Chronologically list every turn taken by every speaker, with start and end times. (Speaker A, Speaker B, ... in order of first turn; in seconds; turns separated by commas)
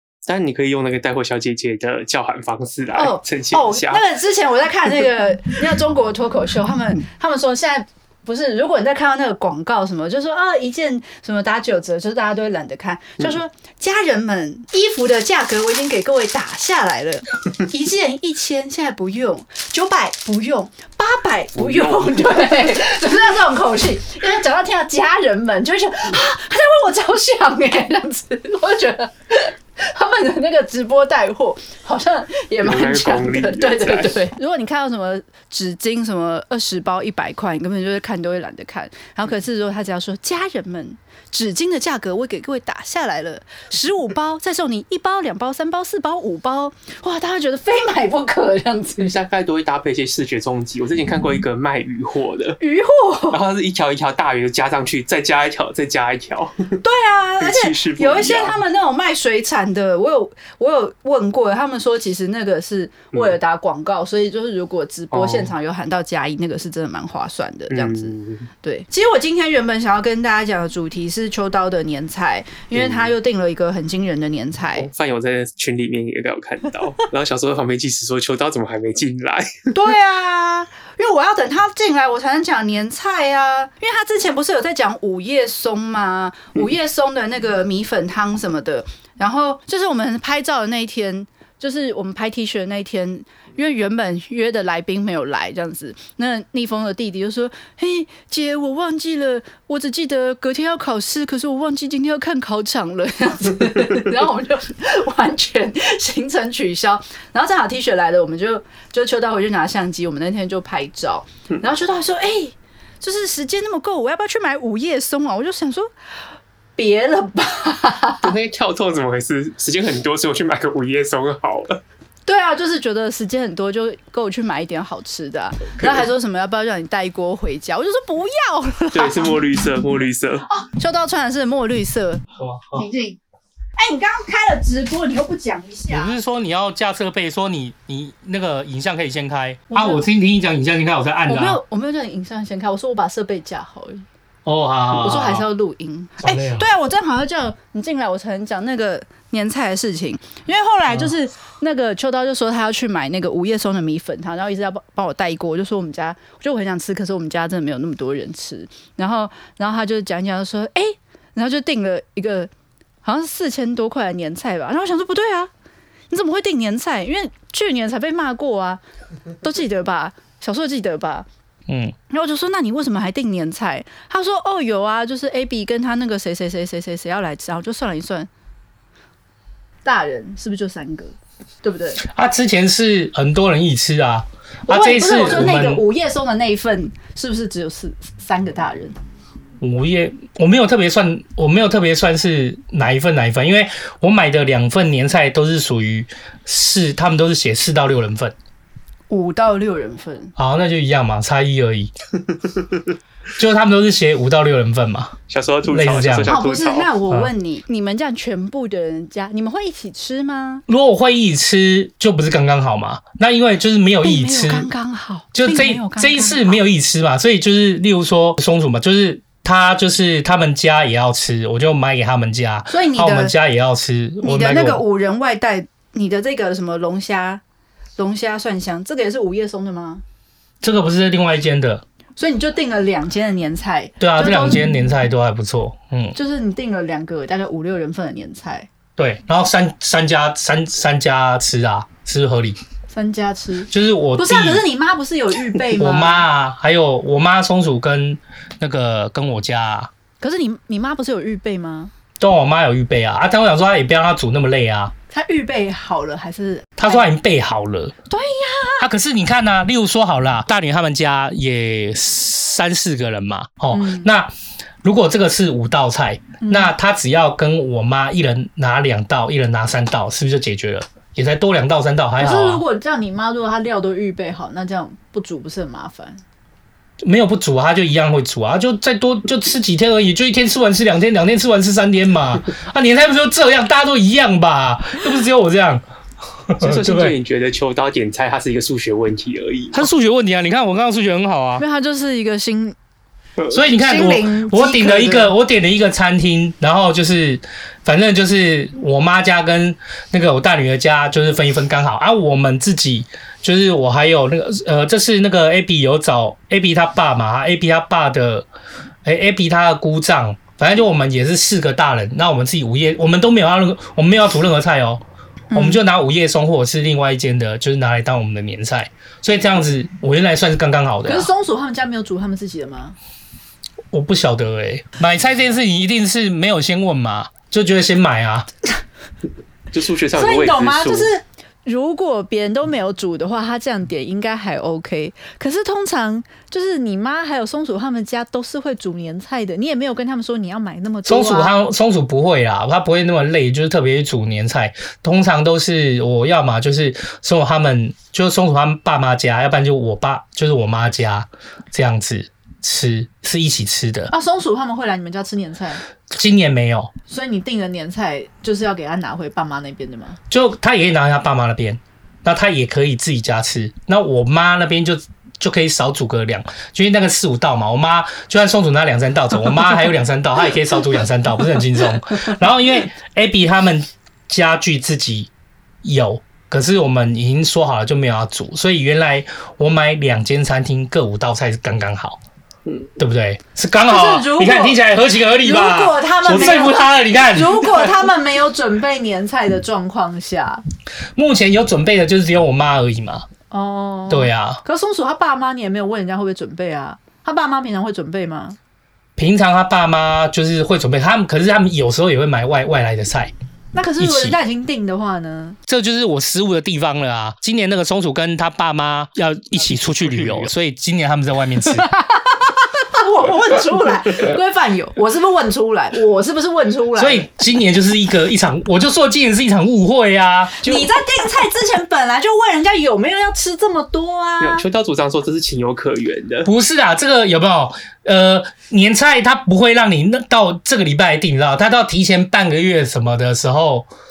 Speaker A: 0.3-4.0, Speaker B: 3.0-49.1, Speaker A: 21.6-22.5, Speaker A: 32.6-34.2, Speaker A: 49.0-52.6, Speaker B: 52.6-53.4, Speaker A: 53.3-56.8, Speaker B: 56.8-74.9, Speaker A: 57.4-58.6, Speaker A: 65.1-65.5, Speaker A: 67.7-68.5, Speaker A: 72.8-73.1, Speaker A: 74.8-79.7, Speaker B: 79.7-115.9, Speaker B: 116.8-118.3, Speaker A: 118.2-121.8, Speaker B: 122.3-129.4, Speaker A: 128.9-130.5, Speaker B: 130.5-133.2, Speaker C: 132.4-132.9, Speaker B: 133.8-136.2, Speaker C: 135.9-141.6, Speaker B: 139.7-140.1, Speaker B: 141.3-144.1, Speaker C: 144.4-145.5, Speaker B: 144.9-162.5, Speaker C: 146.2-146.7, Speaker B: 163.0-165.5, Speaker B: 166.1-168.8, Speaker B: 169.4-171.3, Speaker C: 171.7-171.9, Speaker B: 172.1-178.3, Speaker B: 179.8-182.0, Speaker C: 182.0-185.8, Speaker B: 184.7-188.9, Speaker C: 189.6-198.3, Speaker B: 199.1-200.3, Speaker C: 200.4-201.9, Speaker C: 203.4-205.2, Speaker A: 205.3-206.9, Speaker C: 205.7-206.3, Speaker B: 206.2-210.6, Speaker C: 210.7-214.7, Speaker B: 214.0-216.6, Speaker C: 215.3-224.8, Speaker B: 222.7-223.3, Speaker B: 224.2-227.4, Speaker B: 228.0-230.0, Speaker C: 230.6-231.8, Speaker B: 232.2-234.9, Speaker C: 234.0-236.2, Speaker B: 236.2-238.7, Speaker C: 239.0-242.6, Speaker B: 242.9-246.3, Speaker C: 243.7-244.7, Speaker C: 245.7-249.9, Speaker B: 250.2-251.9, Speaker C: 252.2-254.9, Speaker B: 255.1-257.1, Speaker C: 256.8-257.9, Speaker B: 258.1-258.9, Speaker C: 258.8-264.3, Speaker B: 263.7-264.1, Speaker C: 264.8-272.6, Speaker B: 266.4-266.7, Speaker B: 272.2-276.2, Speaker C: 277.0-285.8, Speaker C: 286.5-287.2, Speaker A: 286.6-289.9, Speaker C: 289.7-291.6, Speaker B: 291.6-292.8, Speaker C: 293.5-308.5, Speaker B: 293.8-295.3, Speaker C: 309.1-315.0, Speaker B: 315.5-315.8, Speaker C: 315.5-321.3, Speaker B: 321.1-323.0, Speaker C: 323.9-328.5, Speaker A: 329.7-331.1, Speaker B: 330.1-341.5, Speaker C: 341.1-354.1, Speaker B: 354.1-355.8, Speaker C: 356.1-356.9, Speaker B: 357.1-360.2, Speaker C: 360.3-375.3, Speaker C: 375.8-382.2, Speaker C: 383.0-387.9, Speaker B: 383.9-384.8, Speaker B: 385.4-390.6, Speaker C: 391.2-393.3, Speaker B: 393.5-398.6, Speaker C: 394.1-394.6, Speaker C: 399.2-403.3, Speaker B: 403.7-405.6, Speaker C: 404.0-404.4, Speaker C: 405.7-411.9, Speaker B: 411.9-417.3, Speaker C: 417.0-420.7, Speaker B: 420.6-424.6, Speaker A: 424.4-426.5, Speaker C: 426.4-433.9